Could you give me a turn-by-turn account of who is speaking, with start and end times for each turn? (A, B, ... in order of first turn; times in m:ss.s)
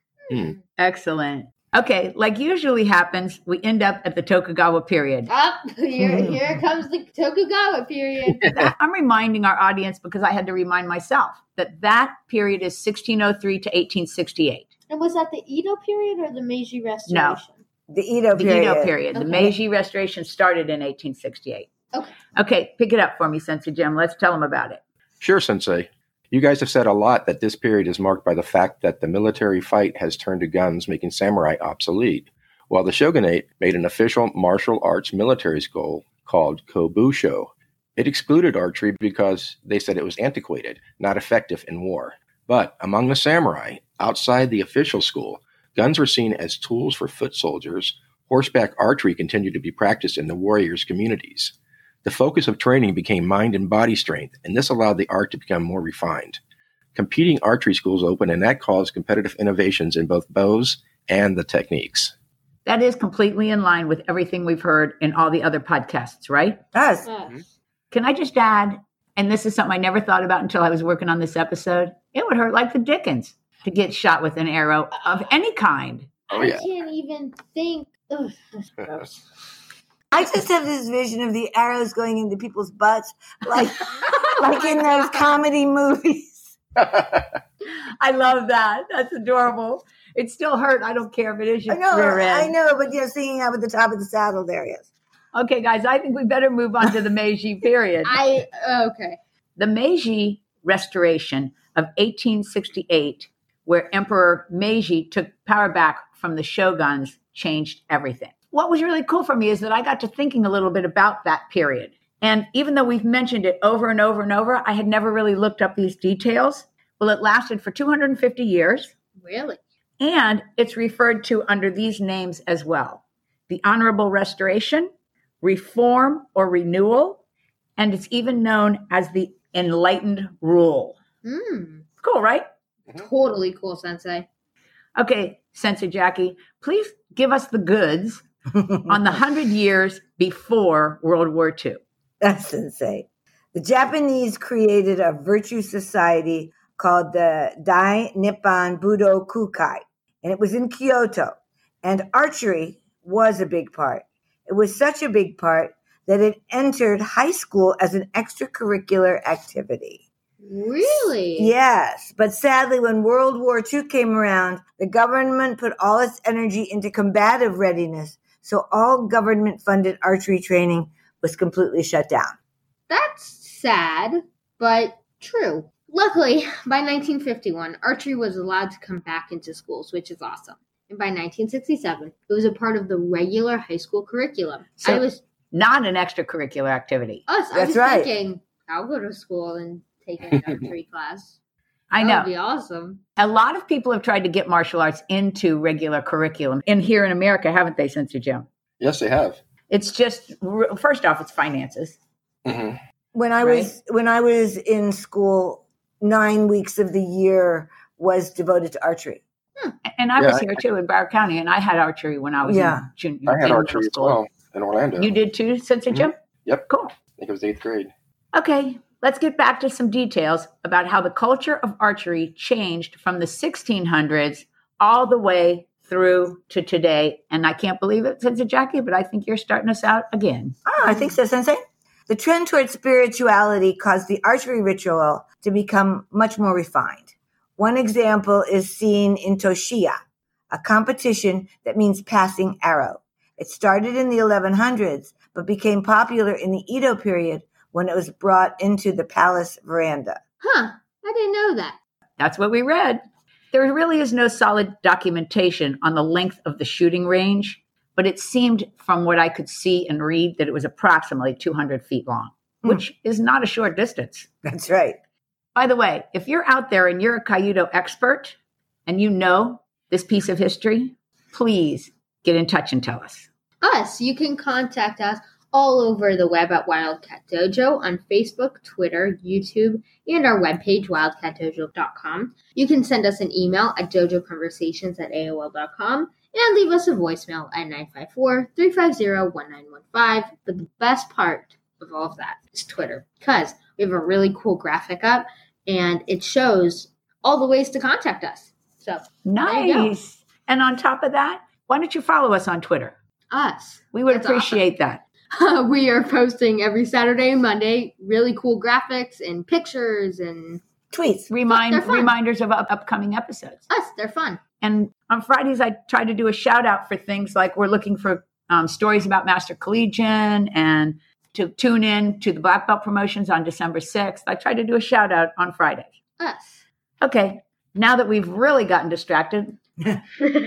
0:00.3-0:00.6 A
0:00.8-0:05.3 B
0:05.3-0:08.5 A
0:06.0-0:06.4 C
0:08.5-0:14.7 B
0:14.9-0:17.6 A
0:17.1-0:17.4 B
0:17.9-0:19.0 C
0:18.3-0:21.7 B
0:19.1-0:19.5 A
0:22.3-0:24.8 B
0:25.2-0:56.4 D
0:56.9-1:02.1 D
1:02.6-1:06.6 B
1:06.7-1:07.1 C
1:07.0-1:07.4 A
1:07.9-1:16.1 B
1:16.3-1:16.6 D
1:16.3-1:19.1 A
1:20.1-1:26.6 C
1:24.1-1:25.3 A
1:26.9-1:27.2 D
1:27.6-1:32.5 B
1:31.7-1:34.9 C
1:35.3-1:38.2 B
1:38.0-1:39.2 A
1:39.6-1:58.9 B
1:59.2-1:59.6 A
2:00.0-2:04.9 B
2:05.4-2:07.2 B
2:07.8-2:11.0 B
2:11.2-2:11.8 A
2:12.0-2:12.4 B
2:12.9-2:14.3 A
2:15.0-2:18.2 B
2:18.5-2:18.9 C
2:18.8-2:21.8 B
2:22.2-2:40.0 C
2:40.4-2:41.5 A
2:40.8-2:52.3 C
2:52.9-3:05.2 A
3:04.8-3:07.2 B
3:07.3-3:11.4 A
3:07.5-3:08.1 C
3:11.9-3:12.3 B
3:12.0-3:13.0 A
3:13.2-3:18.4 B
3:18.8-3:19.4 D
3:19.7-3:22.0 B
3:22.4-3:22.8 D
3:23.1-3:29.2 C
3:23.4-3:23.7 B
3:29.8-3:34.2 B
3:30.2-3:30.5 D
3:32.4-3:32.9 C
3:33.3-3:35.1 D
3:35.0-3:36.2 B
3:35.9-3:37.9 D
3:36.7-3:37.0 B
3:38.3-3:50.6 B
3:50.6-4:00.0 C
4:00.5-4:10.2 C
4:10.4-4:11.8 A
4:12.2-4:24.3 B
4:24.4-4:25.0 C
4:25.5-4:33.3 B
4:33.6-5:00.0 A
4:59.2-5:03.0 B
5:03.3-5:04.6 A
5:03.9-5:05.0 B
5:05.3-5:10.6 A
5:10.9-5:11.3 C
5:11.3-5:13.6 B
5:11.5-5:12.1 A
5:13.7-5:14.4 A
5:14.6-5:25.9 B
5:26.2-5:26.6 A
5:27.0-5:29.6 B